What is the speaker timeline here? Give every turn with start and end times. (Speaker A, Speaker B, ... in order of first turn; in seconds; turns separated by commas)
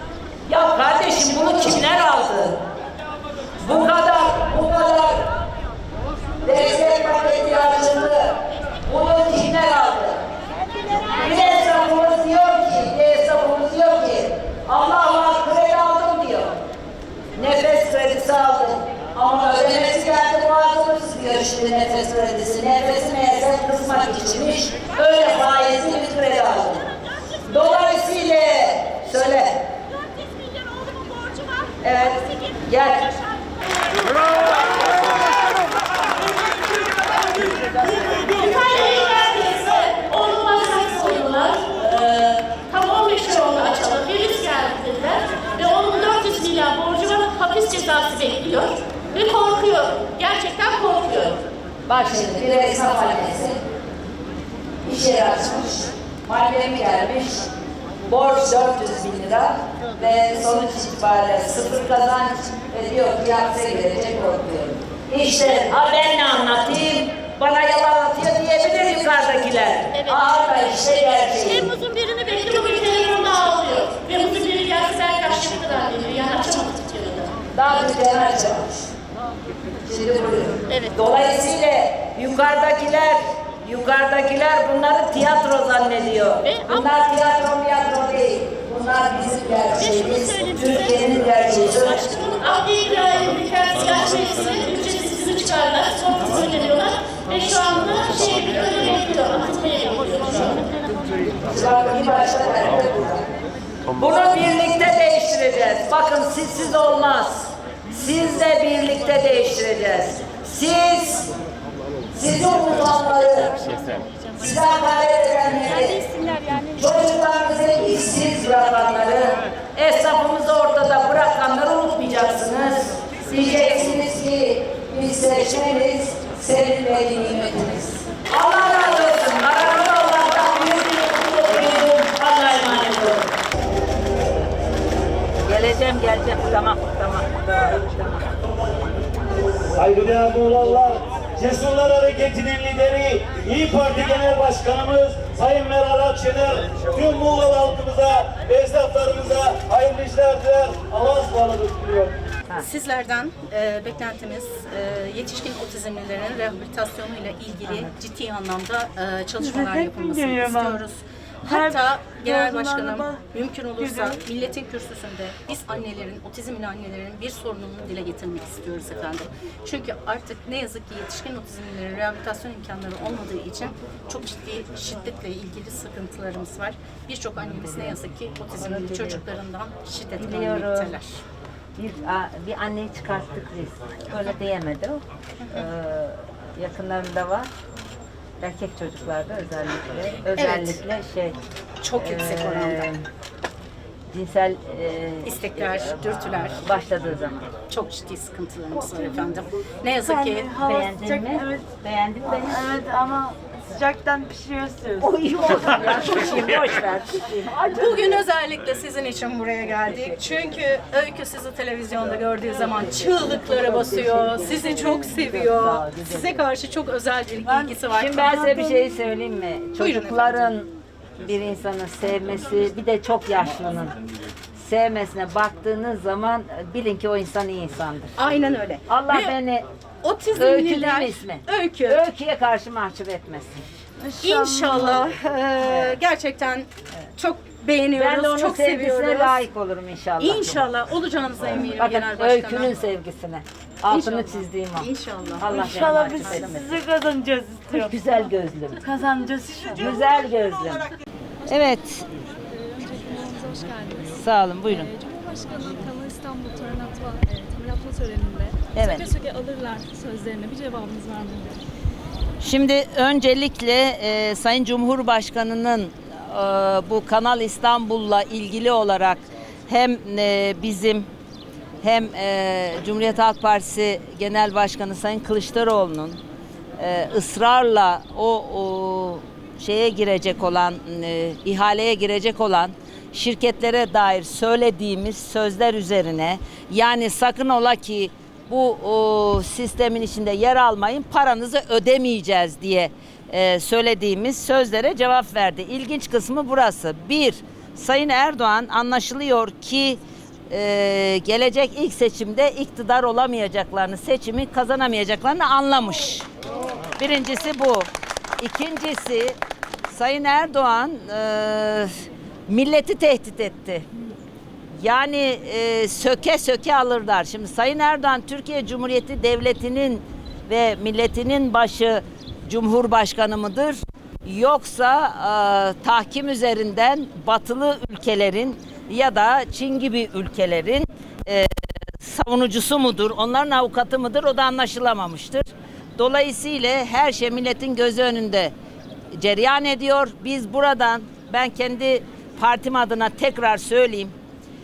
Speaker A: 0.5-2.6, Speaker A: 3.6-5.2, Speaker A: 6.4-8.3, Speaker A: 8.9-10.2, Speaker A: 11.1-16.5, Speaker A: 17.4-26.9, Speaker A: 27.4-29.6, Speaker A: 31.8-33.1, Speaker B: 36.4-51.4, Speaker A: 51.9-53.6, Speaker A: 54.8-57.5, Speaker A: 58.0-71.7, Speaker B: 69.9-70.6, Speaker B: 71.3-77.3, Speaker A: 77.5-78.9, Speaker A: 79.7-92.0, Speaker B: 80.7-81.0, Speaker B: 86.4-87.0, Speaker B: 89.8-100.7, Speaker A: 101.5-103.2, Speaker A: 103.9-111.3, Speaker A: 112.1-113.7, Speaker A: 114.3-116.1, Speaker A: 116.8-133.3, Speaker A: 135.4-138.3, Speaker C: 139.8-152.1, Speaker D: 152.6-181.2, Speaker A: 157.6-157.9, Speaker E: 159.5-160.5, Speaker E: 161.5-163.2, Speaker A: 178.5-179.2, Speaker A: 180.1-181.0, Speaker A: 181.8-187.5, Speaker A: 188.4-191.4, Speaker D: 190.3-190.8, Speaker D: 191.8-192.9, Speaker A: 192.0-193.0, Speaker A: 194.1-197.5, Speaker D: 195.2-196.6, Speaker D: 197.7-200.5, Speaker E: 200.0-201.6, Speaker A: 200.5-202.8, Speaker E: 202.5-205.1, Speaker A: 205.0-208.2, Speaker D: 207.6-218.9, Speaker A: 209.9-210.2, Speaker A: 212.5-216.4, Speaker A: 217.8-220.7, Speaker D: 219.8-220.5, Speaker A: 221.2-223.9, Speaker A: 224.6-228.2, Speaker D: 228.2-229.4, Speaker A: 228.9-229.6, Speaker D: 230.0-232.0, Speaker A: 230.3-233.6, Speaker E: 234.1-234.7, Speaker D: 234.2-239.4, Speaker A: 235.6-236.0, Speaker A: 237.9-240.5, Speaker D: 240.2-242.7, Speaker A: 241.7-246.8, Speaker D: 243.9-246.6, Speaker E: 245.4-247.8, Speaker A: 247.7-248.8, Speaker E: 248.8-249.8, Speaker A: 249.8-250.9, Speaker A: 251.5-252.0, Speaker F: 252.5-261.6, Speaker A: 254.1-254.9, Speaker A: 258.7-259.1, Speaker A: 262.4-271.1, Speaker A: 271.8-276.2, Speaker A: 276.8-306.3, Speaker A: 307.0-307.9, Speaker A: 308.4-309.4, Speaker A: 309.9-311.9, Speaker A: 312.5-313.9, Speaker A: 314.8-338.5, Speaker A: 339.1-344.1